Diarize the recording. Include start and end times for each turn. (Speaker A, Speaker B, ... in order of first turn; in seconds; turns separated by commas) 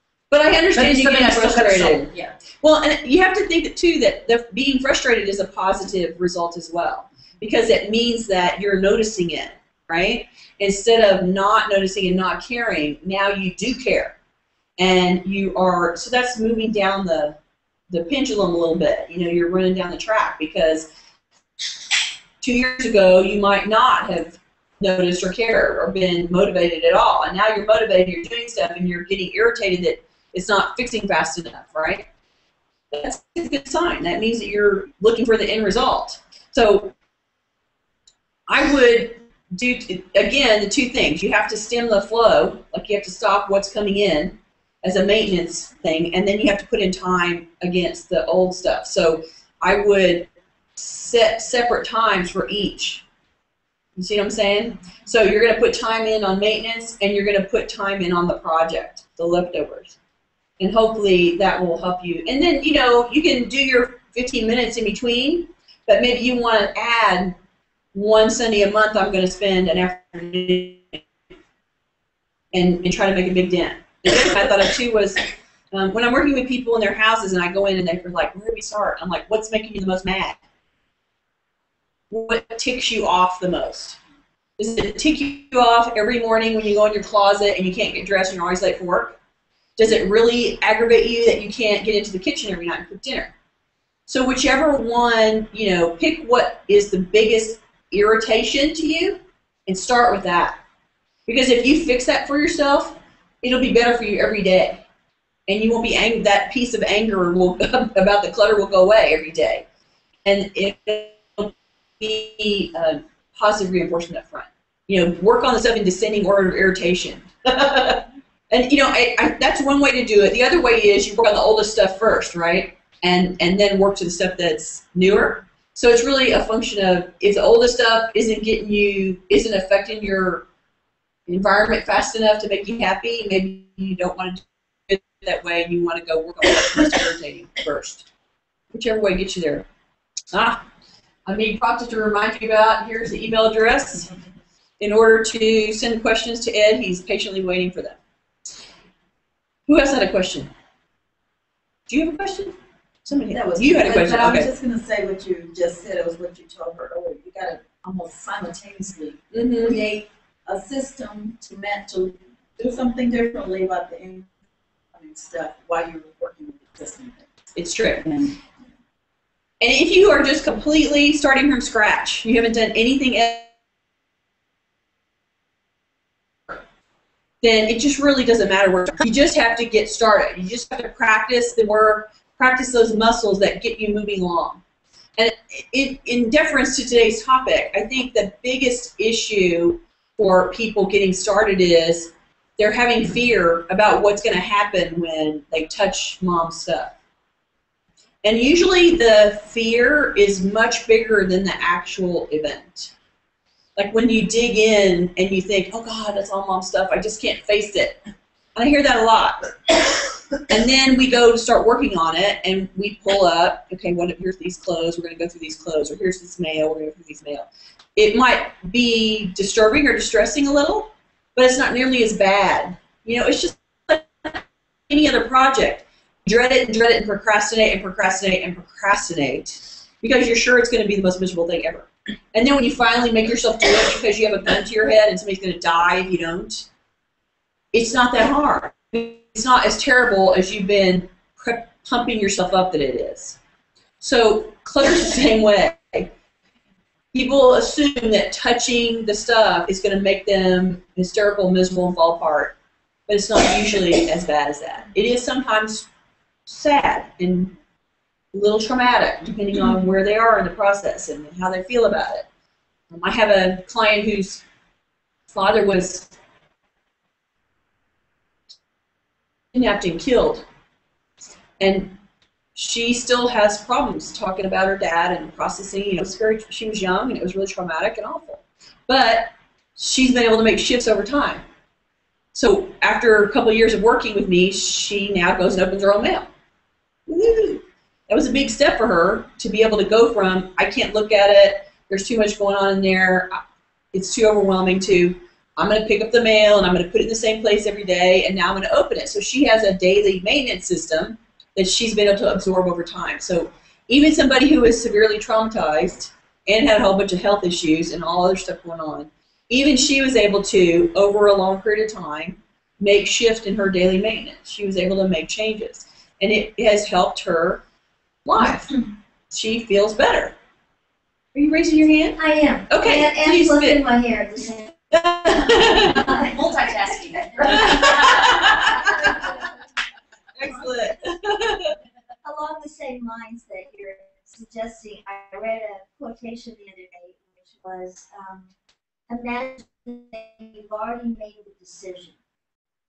Speaker A: 0.3-14.2, Speaker B: 0.7-2.4, Speaker A: 14.8-17.4, Speaker A: 17.9-20.9, Speaker A: 22.4-32.1, Speaker A: 32.9-36.9, Speaker A: 38.5-53.0, Speaker A: 54.0-60.0, Speaker A: 60.6-67.4, Speaker A: 67.9-71.0, Speaker A: 72.5-80.4, Speaker A: 82.1-84.0, Speaker A: 84.6-89.2, Speaker A: 89.8-93.3, Speaker A: 94.1-100.6, Speaker A: 101.3-104.8, Speaker A: 105.5-109.7, Speaker A: 110.2-130.5, Speaker A: 131.3-138.1, Speaker A: 138.7-139.7, Speaker A: 140.3-140.6, Speaker A: 141.2-144.1, Speaker A: 144.8-148.0, Speaker A: 149.7-150.5, Speaker A: 151.9-154.5, Speaker C: 153.3-164.3, Speaker A: 159.3-159.8, Speaker C: 164.9-167.3, Speaker A: 167.5-168.1, Speaker C: 168.0-168.3, Speaker A: 169.6-173.5, Speaker A: 177.4-184.6, Speaker A: 185.2-196.9, Speaker A: 198.2-202.9, Speaker A: 203.8-208.0, Speaker A: 208.5-209.5, Speaker A: 210.4-236.7, Speaker A: 237.7-243.4, Speaker A: 244.0-246.1, Speaker A: 247.1-252.6, Speaker A: 253.1-255.9, Speaker A: 256.4-257.5, Speaker A: 258.3-262.2, Speaker A: 262.9-264.4, Speaker A: 265.3-266.1, Speaker A: 269.5-270.4, Speaker A: 271.6-271.9, Speaker A: 272.5-281.4, Speaker A: 282.3-286.3, Speaker A: 287.1-293.4, Speaker A: 293.9-317.6, Speaker A: 318.2-318.7, Speaker A: 319.3-320.3, Speaker A: 321.3-323.8, Speaker D: 322.2-324.8, Speaker A: 324.9-326.1, Speaker D: 325.9-326.4, Speaker B: 326.1-328.4, Speaker D: 327.3-329.5, Speaker A: 327.4-329.4, Speaker A: 330.3-331.8, Speaker D: 332.2-338.5, Speaker D: 339.1-342.1